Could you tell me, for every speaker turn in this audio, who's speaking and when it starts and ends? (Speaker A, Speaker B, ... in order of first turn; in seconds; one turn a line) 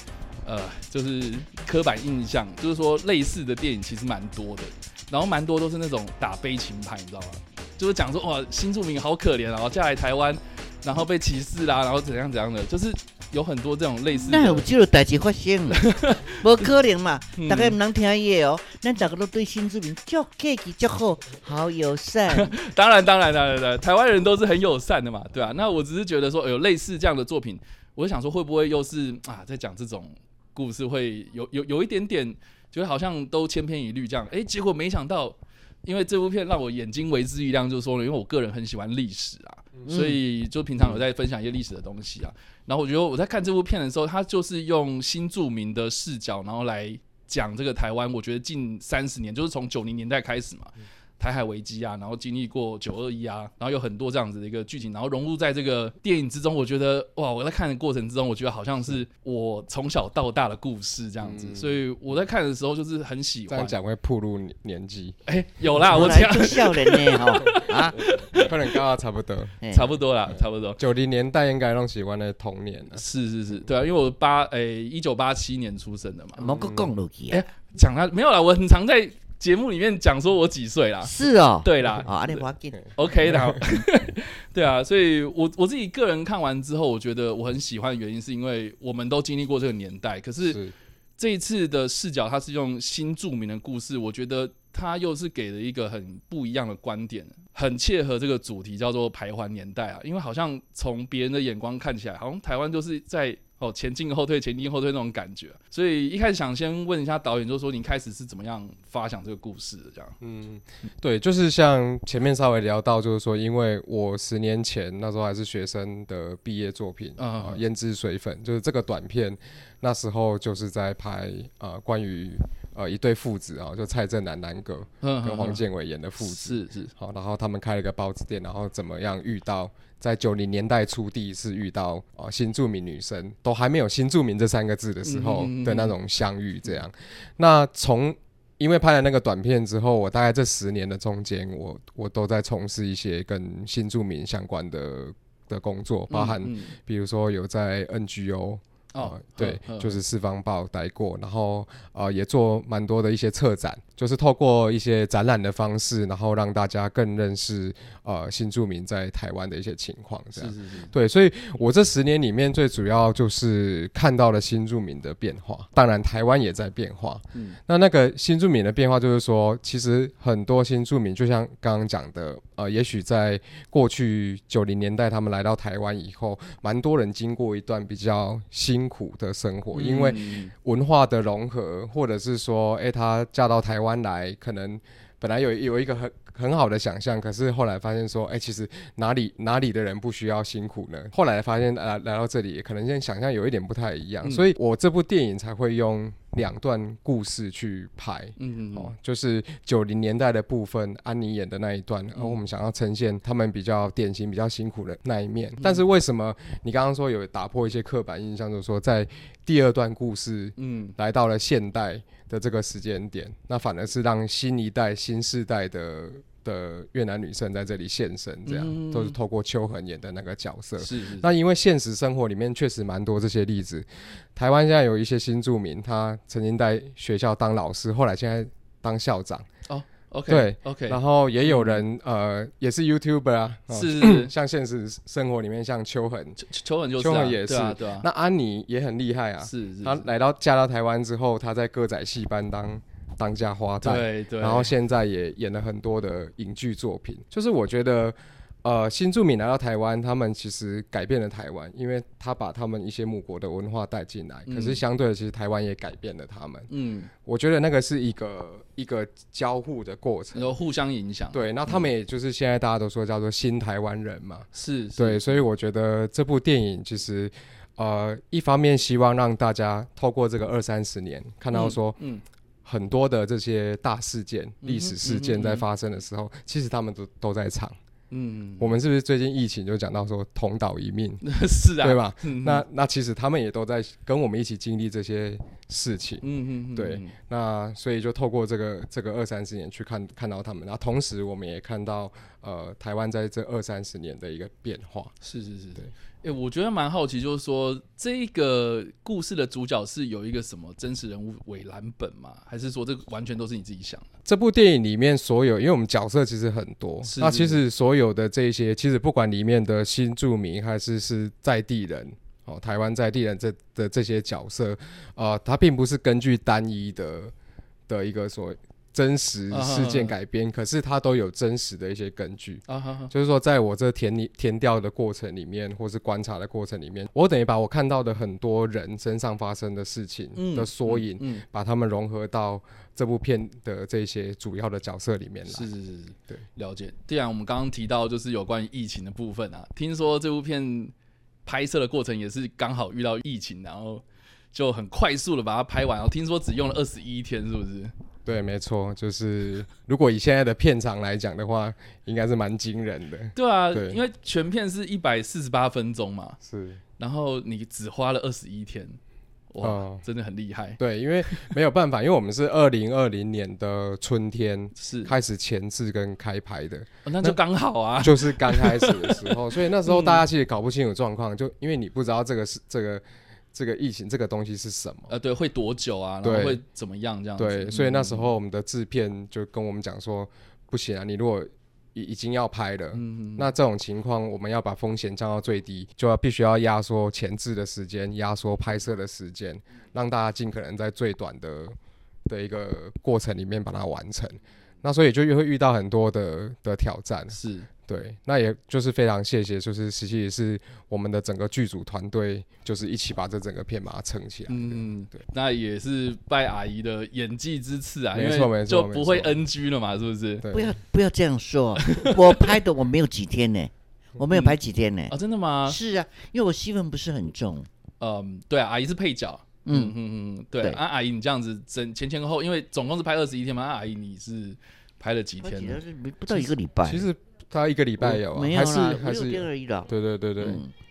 Speaker A: 0.4-14.7
Speaker B: 14.3-22.5
Speaker A: 15.7-16.4
Speaker A: 17.4-17.8
Speaker A: 22.3-63.7
Speaker B: 39.9-40.2
Speaker C: 61.2-61.8
Speaker C: 63.5-65.2
Speaker A: 65.2-68.5
Speaker B: 65.8-68.0
Speaker C: 68.0-69.6
Speaker B: 69.6-70.0
Speaker A: 69.7-70.8
Speaker C: 70.8-73.0
Speaker A: 72.9-76.5
Speaker B: 76.4-77.4
Speaker C: 76.5-76.9
Speaker A: 77.3-90.6
Speaker B: 81.0-82.9
Speaker C: 83.3-83.6
Speaker C: 90.4-90.7
Speaker A: 91.2-110.2
Speaker C: 110.2-229.4
Speaker A: 117.2-117.6
Speaker A: 125.0-125.6
Speaker A: 126.2-126.9
Speaker A: 135.0-135.9
Speaker A: 146.1-146.8
Speaker A: 148.9-150.0
Speaker A: 160.3-160.9
Speaker A: 179.7-180.5
Speaker A: 194.2-194.5
Speaker A: 198.4-198.9
Speaker A: 210.6-210.9
Speaker A: 218.4-219.2
Speaker A: 220.8-221.3
Speaker A: 229.7-231.8
Speaker C: 230.3-236.4
Speaker A: 233.7-234.3
Speaker A: 236.4-238.1
Speaker C: 237.0-256.7
Speaker A: 239.4-240.1
Speaker A: 243.8-244.7
Speaker A: 254.5-254.8
Speaker A: 256.7-257.1
Speaker C: 257.2-260.5
Speaker A: 260.3-261.9
Speaker C: 261.3-272.0
Speaker A: 264.5-265.4
Speaker A: 271.5-272.2
Speaker C: 272.6-277.8
Speaker A: 274.6-275.6
Speaker A: 278.1-278.8
Speaker C: 278.6-281.2
Speaker A: 281.2-282.6
Speaker C: 281.8-295.1
Speaker A: 286.2-287.1
Speaker A: 295.2-304.1
Speaker C: 304.2-317.3
Speaker A: 307.0-307.6
Speaker C: 317.9-335.7
Speaker A: 319.5-320.1
Speaker A: 322.7-323.1
Speaker A: 330.4-331.4
Speaker A: 335.5-340.9
Speaker A: 341.4-347.9
Speaker C: 348.2-354.0
Speaker A: 353.3-356.4
Speaker C: 356.4-356.8
Speaker A: 357.0-359.0
Speaker A: 359.5-361.5
Speaker C: 359.6-360.0
Speaker C: 360.8-367.4
Speaker A: 364.8-365.1
Speaker A: 367.1-370.2
Speaker C: 368.0-375.1
Speaker A: 375.1-378.3
Speaker C: 376.2-376.6
Speaker C: 377.4-391.8
Speaker A: 382.9-383.5
Speaker C: 392.3-405.2
Speaker A: 397.3-397.7
Speaker A: 404.5-410.5
Speaker C: 408.1-409.4
Speaker C: 410.4-410.7
Speaker B: 410.5-415.1
Speaker A: 411.8-412.5
Speaker A: 414.3-414.6
Speaker A: 415.1-415.8
Speaker B: 415.6-417.7
Speaker A: 418.0-425.8
Speaker B: 419.6-419.9
Speaker B: 425.4-427.1
Speaker C: 426.8-430.6
Speaker B: 428.0-430.7